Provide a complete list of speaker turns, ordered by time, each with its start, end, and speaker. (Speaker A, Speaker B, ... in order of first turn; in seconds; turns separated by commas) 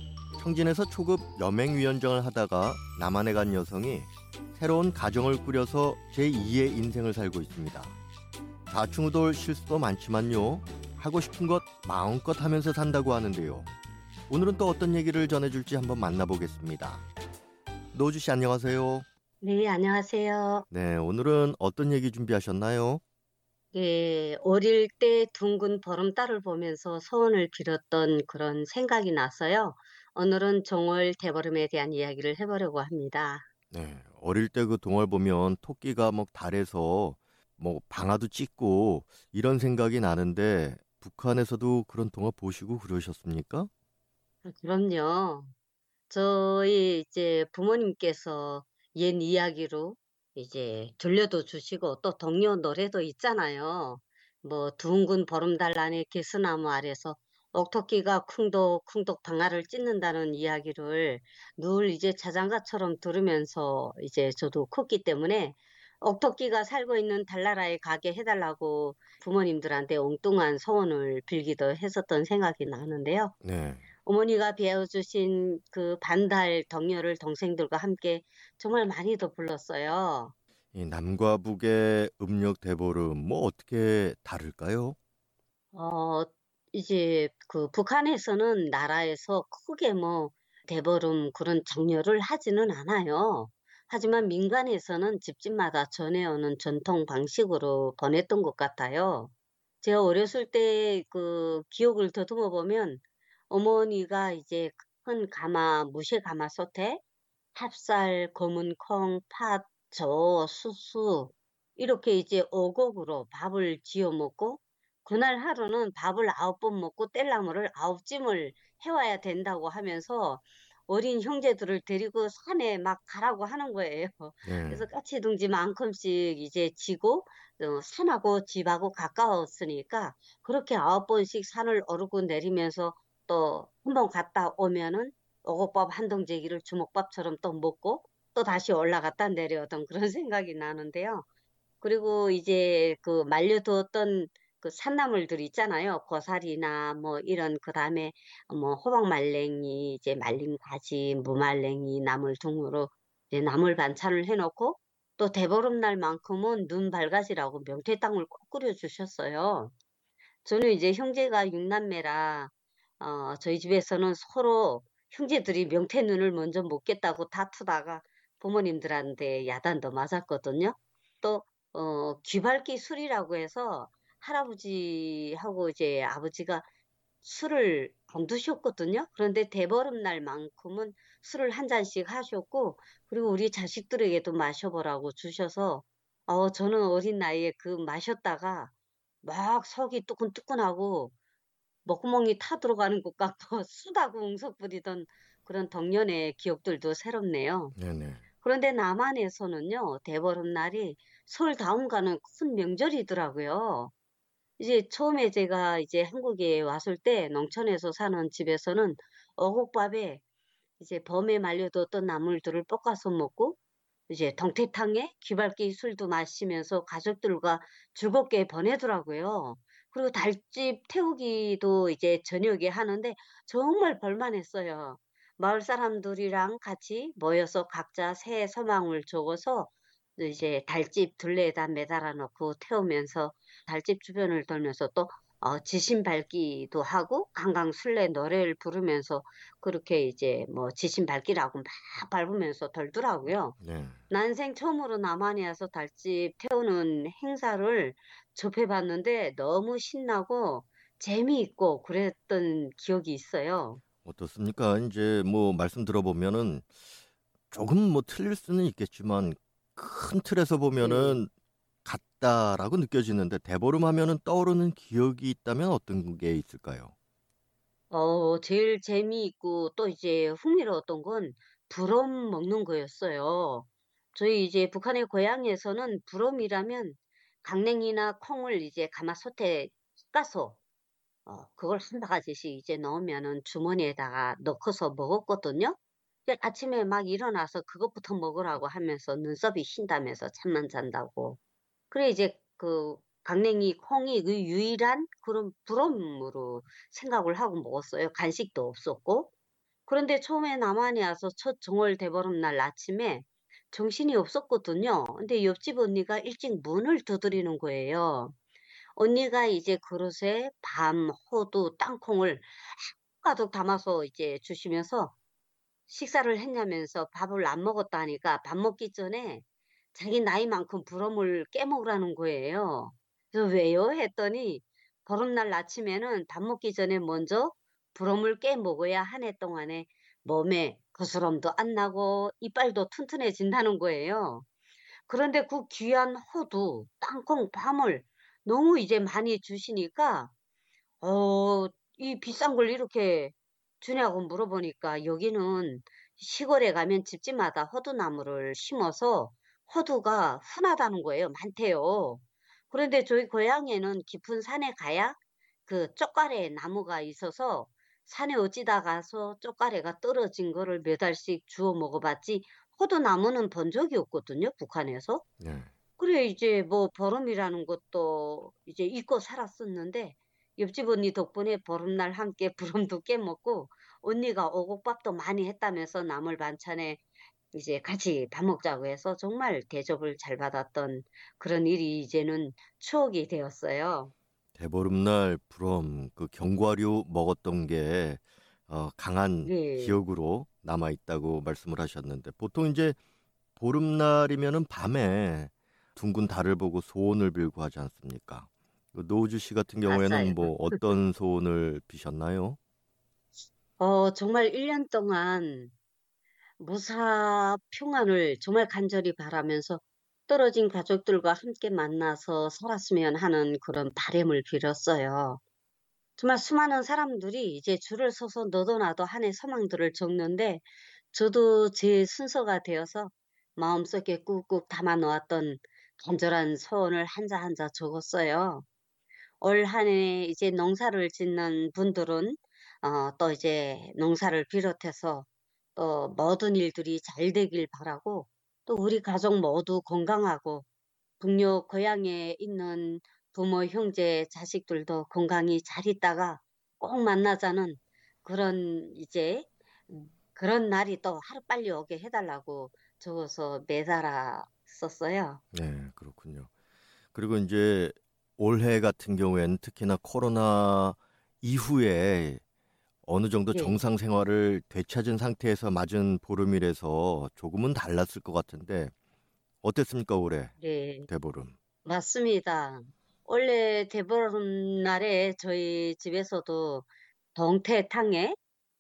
Speaker A: 0.4-7.9, Speaker A: 8.7-13.7, Speaker A: 14.3-17.1, Speaker A: 17.9-19.1, Speaker B: 19.4-20.7, Speaker A: 20.7-23.0, Speaker B: 23.7-33.5, Speaker A: 33.7-43.7, Speaker B: 44.4-45.5, Speaker B: 46.1-73.3, Speaker A: 73.4-73.9, Speaker B: 74.0-80.3, Speaker A: 80.7-85.0, Speaker B: 85.7-107.0, Speaker B: 107.5-141.3, Speaker A: 124.4-124.9, Speaker B: 141.8-159.7, Speaker B: 160.4-176.7, Speaker B: 177.2-188.7, Speaker B: 189.2-191.1, Speaker B: 191.8-197.8, Speaker A: 197.8-198.2, Speaker B: 198.4-203.9, Speaker B: 204.6-210.2, Speaker B: 210.8-213.6, Speaker B: 214.1-243.6, Speaker A: 243.6-244.0, Speaker B: 244.1-253.8, Speaker A: 254.1-256.7, Speaker A: 257.5-261.3, Speaker B: 260.8-261.2, Speaker A: 261.9-266.9, Speaker B: 267.9-280.6, Speaker B: 281.3-291.4, Speaker B: 291.9-299.3, Speaker B: 299.9-308.4, Speaker B: 309.0-315.1, Speaker B: 315.9-334.5, Speaker B: 335.1-340.3, Speaker B: 341.0-365.2, Speaker A: 365.4-365.7, Speaker B: 366.0-377.0, Speaker B: 377.5-384.1, Speaker A: 384.6-393.0, Speaker B: 389.4-390.0, Speaker A: 393.6-402.6, Speaker B: 399.9-400.9, Speaker B: 403.8-405.7, Speaker B: 406.6-415.4, Speaker B: 416.2-428.7, Speaker B: 429.4-440.6, Speaker B: 441.2-455.4, Speaker A: 455.5-456.5, Speaker A: 457.1-462.4, Speaker A: 463.0-468.9, Speaker A: 469.6-470.5, Speaker B: 470.6-471.1, Speaker A: 471.1-471.6, Speaker B: 471.9-478.4